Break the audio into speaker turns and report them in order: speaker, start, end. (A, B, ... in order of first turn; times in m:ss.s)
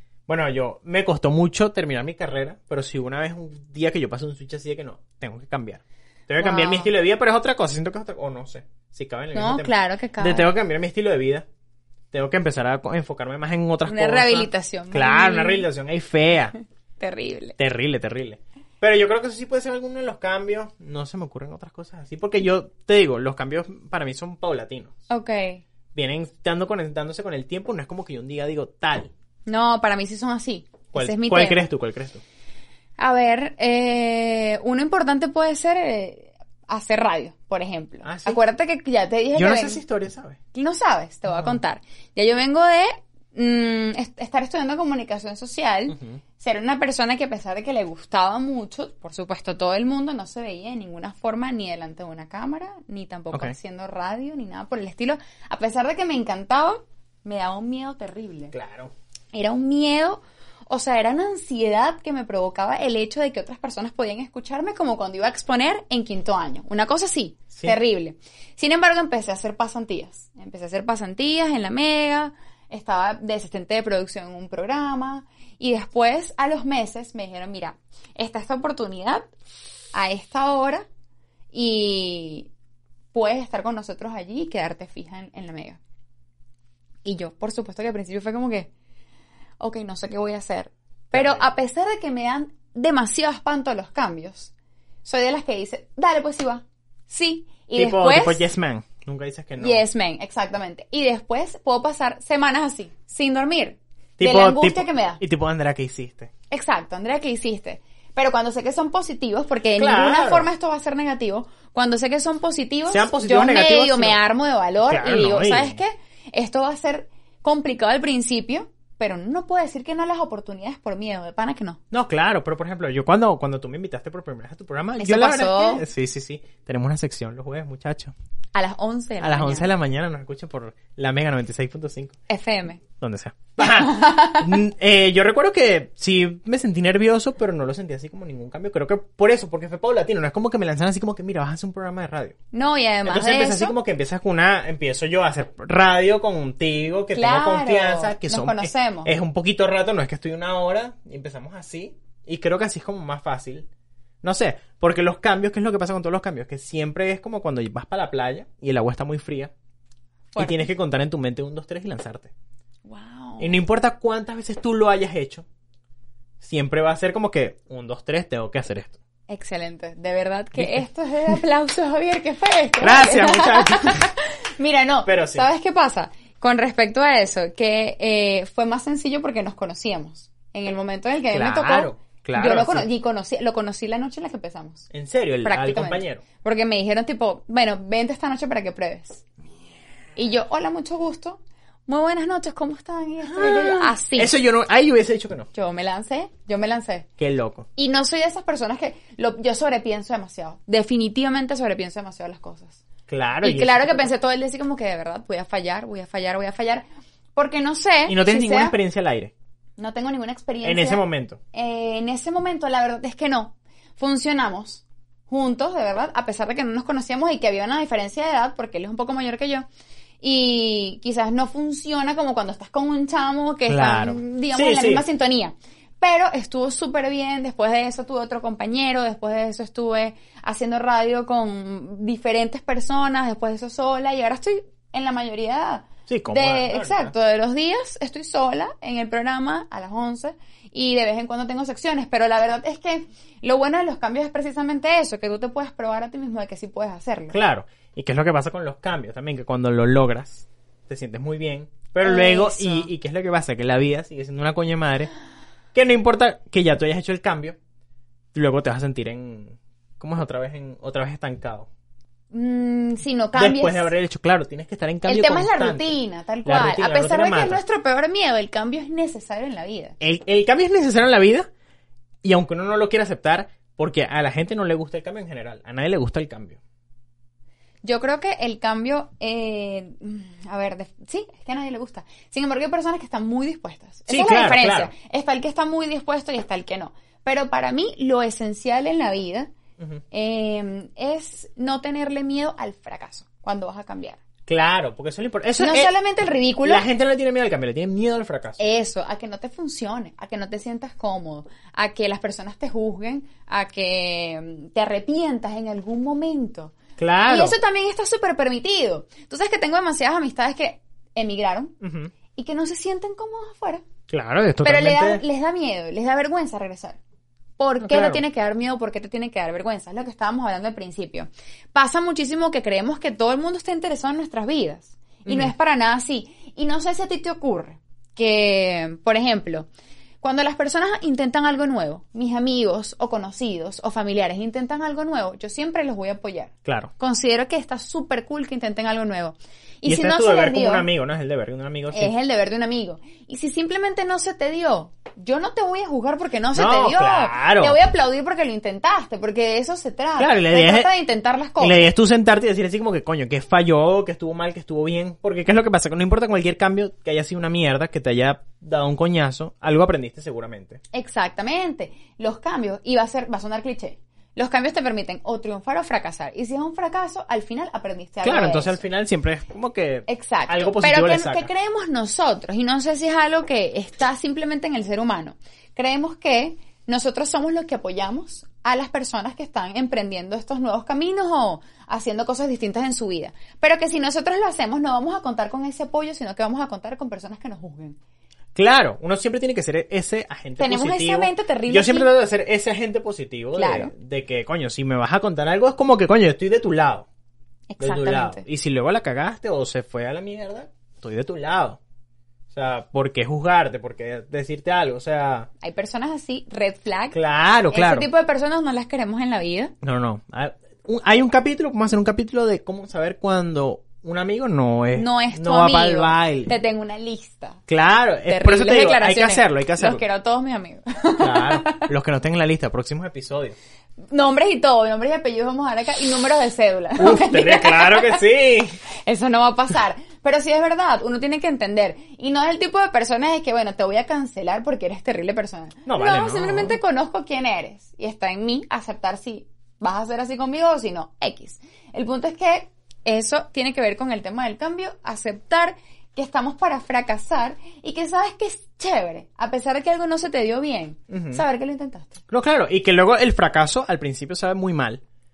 0:00.3-0:11.4 A
0:06.4-0:06.9 B
0:09.3-0:10.5 B
0:12.1-0:16.6 A
0:13.9-0:15.7 B
0:17.0-0:17.6 B
0:17.6-0:24.9 A
0:25.1-0:25.6 B
0:25.9-0:29.1 A
0:29.4-0:31.7 B
0:30.9-0:32.2 A
0:33.0-0:39.8 B
0:38.0-0:38.4 A
0:39.4-0:40.4 A
0:40.5-0:58.5 B
0:41.3-0:41.6 A
0:45.9-0:46.2 A
0:58.5-0:58.9 A
0:59.3-1:19.3 B
1:19.9-1:20.9 B
1:21.5-1:22.5 B
1:23.1-1:25.8 B
1:27.0-1:28.7 B
1:29.6-1:34.5 B
1:31.1-1:31.5 A
1:35.0-1:38.5 B
1:37.8-1:39.8 A
1:39.6-1:45.2 B
1:44.2-1:46.3 A
1:46.5-2:01.8 B
1:49.8-1:50.5 A
1:52.9-1:54.2 A
1:54.9-1:55.8 A
2:01.9-2:08.1 A
2:05.0-2:05.8 B
2:08.6-2:09.7 B
2:09.2-2:12.2 A
2:12.3-2:12.8 B
2:13.0-2:22.4 A
2:13.6-2:14.5 B
2:22.5-2:23.8 B
2:23.0-2:33.7 A
2:27.1-2:29.1 B
2:34.2-2:39.5 A
2:40.3-2:40.7 B
2:40.4-2:42.3 A
2:42.8-2:43.6 B
2:43.4-2:45.4 A
2:46.4-2:49.0 A
2:49.3-3:04.9 B
2:50.6-2:50.9 A
2:52.8-2:54.1 A
2:55.0-2:55.4 A
3:01.3-3:02.9 A
3:04.9-3:06.2 A
3:05.4-3:09.2 B
3:10.2-3:14.3 B
3:13.2-3:15.5 A
3:15.5-3:17.1 B
3:17.2-3:17.7 A
3:17.8-3:22.8 B
3:23.1-3:24.1 A
3:23.4-3:26.8 B
3:27.4-3:28.8 B
3:28.1-3:29.3 A
3:29.8-3:39.6 B
3:30.6-3:31.4 A
3:40.2-4:07.4 B
3:43.7-3:45.0 A
3:56.1-3:57.1 A
4:07.3-4:15.1 A
4:12.0-4:12.9 B
4:15.7-4:17.6 A
4:18.3-4:21.7 A
4:22.3-4:23.9 B
4:23.4-4:27.6 A
4:25.1-4:30.0 B
4:30.0-4:31.5 A
4:32.2-4:36.6 A
4:37.8-4:49.5 B
4:44.1-4:44.9 A
4:50.1-4:54.2 B
4:54.5-4:55.9 A
4:55.6-4:56.8 B
4:56.6-4:58.6 A
4:58.6-5:06.7 B
5:07.0-5:07.6 A
5:07.3-5:11.7 B
5:11.8-5:12.1 A
5:12.3-5:13.8 B
5:14.1-5:15.2 A
5:14.6-5:17.0 B
5:17.6-5:29.7 B
5:17.8-5:18.2 A
5:25.3-5:25.5 A
5:30.2-5:40.9 B
5:36.6-5:36.9 A
5:39.8-5:42.1 A
5:41.9-5:51.8 B
5:46.5-5:47.8 A
5:50.2-5:50.9 A
5:51.6-6:00.8 A
6:00.9-6:08.8 B
6:08.2-6:11.5 A
6:10.1-6:28.0 B
6:28.6-6:37.1 A
6:30.6-6:32.1 B
6:33.6-6:33.9 B
6:37.7-6:38.4 B
6:37.8-6:41.8 A
6:42.5-6:45.5 A
6:45.6-6:47.2 B
6:47.1-6:48.1 A
6:47.7-6:49.7 B
6:49.8-6:56.6 A
6:54.9-6:57.6 B
6:57.7-7:00.0 A
6:58.3-7:01.9 B
7:01.2-7:03.6 A
7:04.1-7:08.2 B
7:07.0-7:08.8 A
7:09.1-7:32.2 B
7:15.8-7:16.8 A
7:31.1-7:31.4 A
7:32.3-7:35.0 A